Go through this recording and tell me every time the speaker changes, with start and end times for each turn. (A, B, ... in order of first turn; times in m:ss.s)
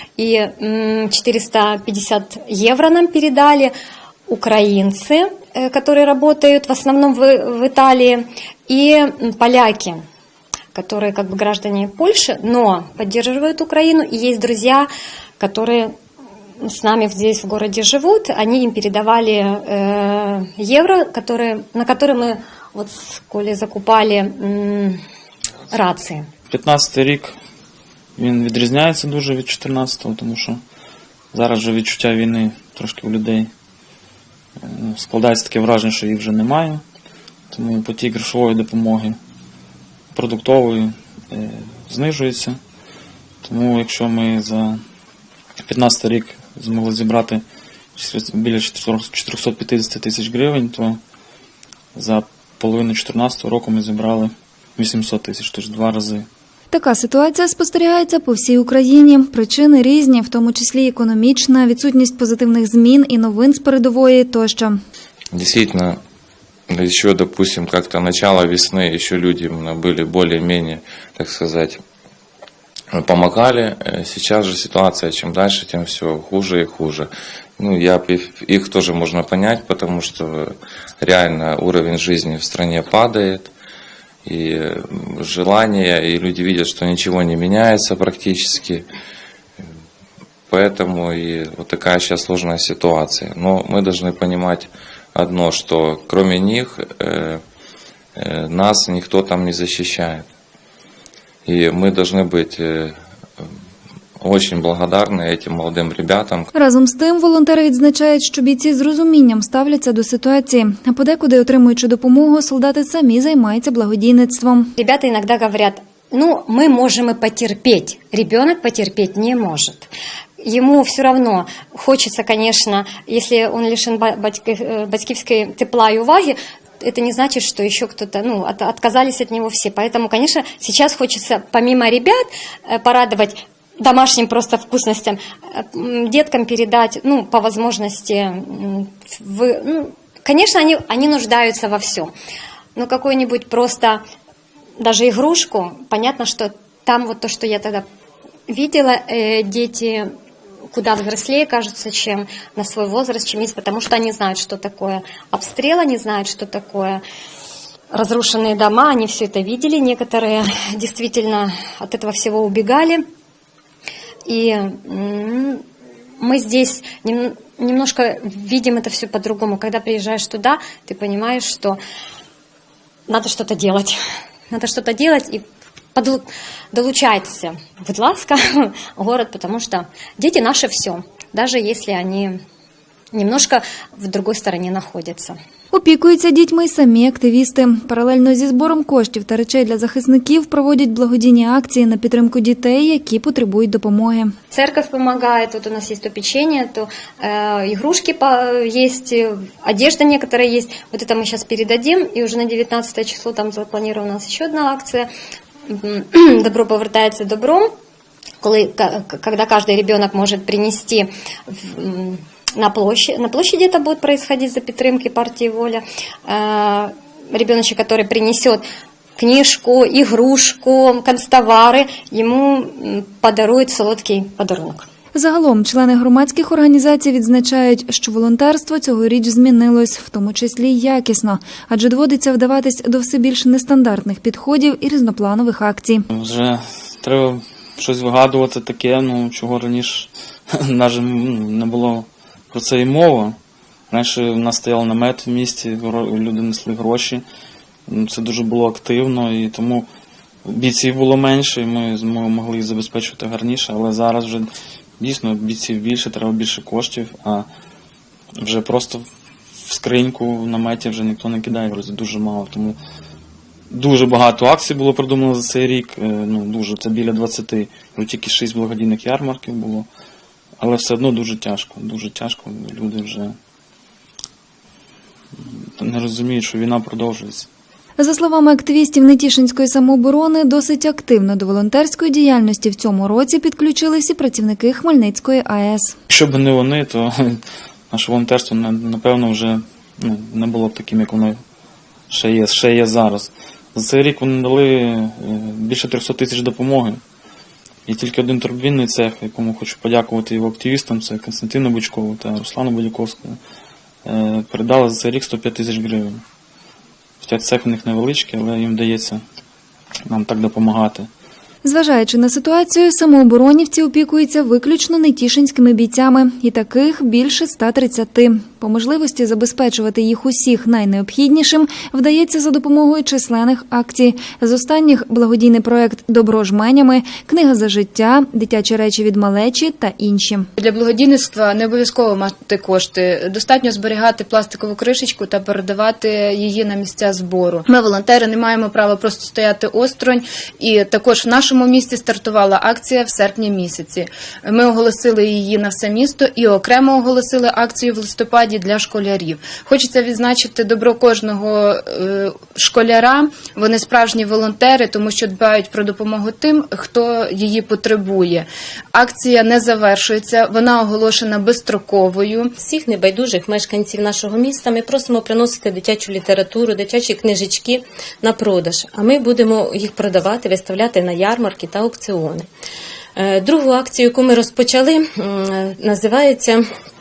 0:00.2-0:03.7 A
0:04.3-0:10.0 A
0:10.7-0:14.9 A
0:15.4-0:15.9 A
0:16.6-0:25.0 A
0:25.7-0:26.3 A
0:26.5-0:27.3 B
0:28.2-0:30.6 B
0:31.3-0:33.5 B
0:34.6-0:36.8 B
0:37.5-0:39.2 B
0:40.1-0:42.6 B
0:43.4-0:44.8 B
0:45.6-0:47.4 B
0:48.0-0:51.0 B
0:51.9-0:56.2 B
0:56.7-1:04.8 C
1:05.3-1:06.0 D
1:06.7-1:11.8 D
1:12.9-1:23.5 D
1:24.2-1:28.8 D
1:30.5-1:37.4 D
1:38.2-1:40.2 D
1:41.4-1:43.5 D
1:44.2-1:46.5 D
1:46.5-1:54.7 C
1:54.8-2:22.1 A
2:22.8-2:24.0 A
2:24.8-2:27.8 A
2:28.5-2:30.1 A
2:30.7-2:37.0 A
2:37.9-2:43.0 A
2:44.3-2:45.6 A
2:46.2-2:51.8 A
2:53.1-2:54.0 A
2:54.5-2:55.4 A
2:55.9-3:02.4 A
3:03.1-3:05.4 A
3:05.7-3:14.3 C
3:14.5-3:25.1 A
3:25.7-3:27.7 A
3:28.4-3:38.6 A
3:39.2-3:44.8 A
3:45.1-3:56.0 C
3:56.1-4:03.4 B
4:03.9-4:07.2 B
4:07.9-4:09.8 B
4:10.4-4:17.5 B
4:18.4-4:19.0 B
4:19.6-4:22.8 B
4:23.7-4:29.9 B
4:30.6-4:33.3 B
4:35.8-4:37.5 B
4:38.0-4:46.0 C
4:46.1-4:47.4 B
4:47.9-4:51.4 B
4:52.1-4:57.0 B
4:57.9-5:03.4 B
5:04.0-5:06.2 B
5:07.2-5:09.2 B
5:10.1-5:11.1 B
5:11.6-5:30.5 C
5:30.6-6:02.5 E
6:02.6-6:12.5 F
6:13.2-6:16.6 F